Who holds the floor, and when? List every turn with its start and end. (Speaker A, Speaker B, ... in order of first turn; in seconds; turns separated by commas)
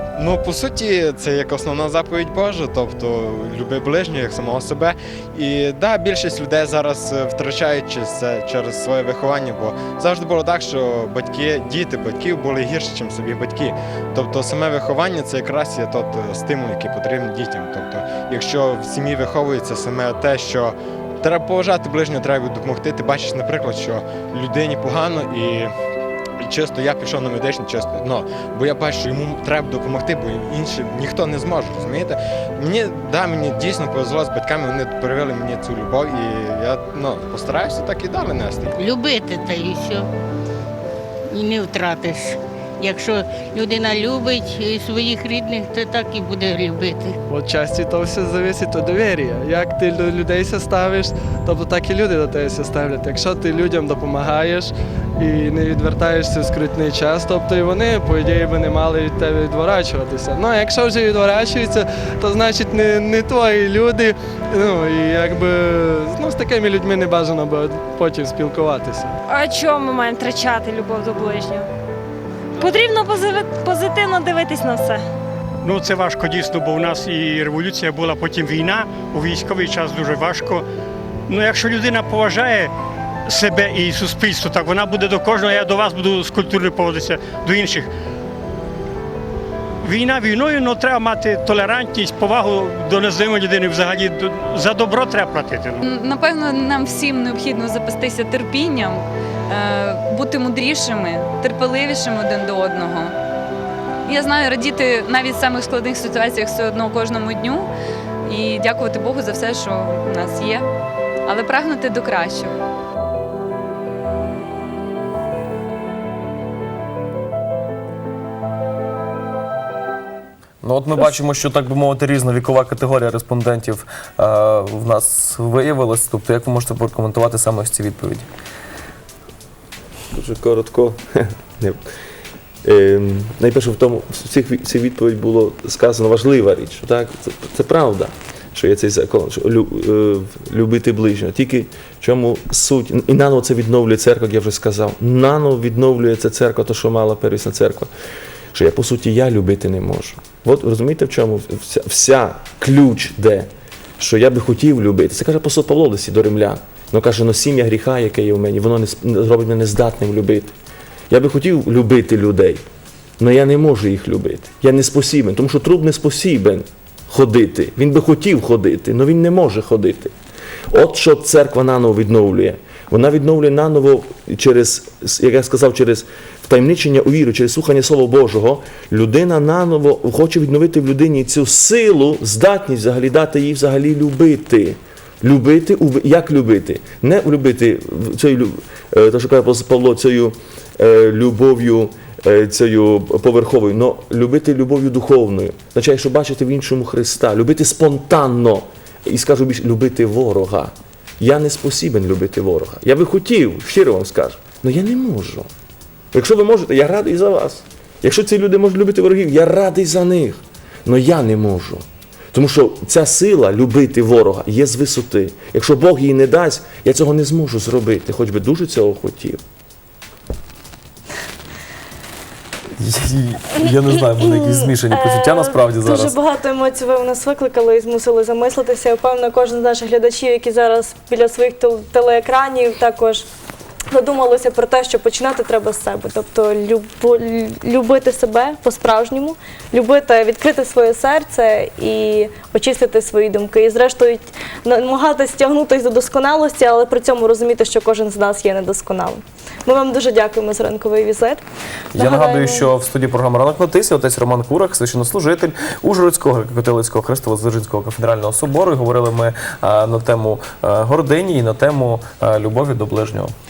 Speaker A: 0.2-25.7, Speaker A: 26.4-38.7, Speaker B: 38.8-40.1, Speaker B: 41.3-47.2, Speaker C: 47.3-69.1, Speaker D: 69.3-71.7, Speaker D: 72.6-75.0, Speaker E: 75.6-80.6, Speaker E: 81.3-82.7, Speaker E: 83.3-87.9, Speaker E: 89.8-95.8, Speaker F: 95.9-103.1, Speaker F: 104.1-107.7, Speaker F: 108.2-110.6, Speaker F: 111.3-112.5, Speaker G: 120.6-128.3, Speaker H: 130.1-131.8, Speaker H: 132.6-147.9, Speaker H: 148.5-153.5, Speaker H: 154.0-160.5, Speaker H: 161.1-162.6, Speaker H: 163.2-170.1, Speaker H: 170.7-205.5, Speaker H: 206.1-219.4, Speaker G: 222.8-226.2, Speaker I: 224.2-233.2, Speaker I: 233.9-251.4, Speaker I: 251.9-252.7, Speaker G: 251.9-263.3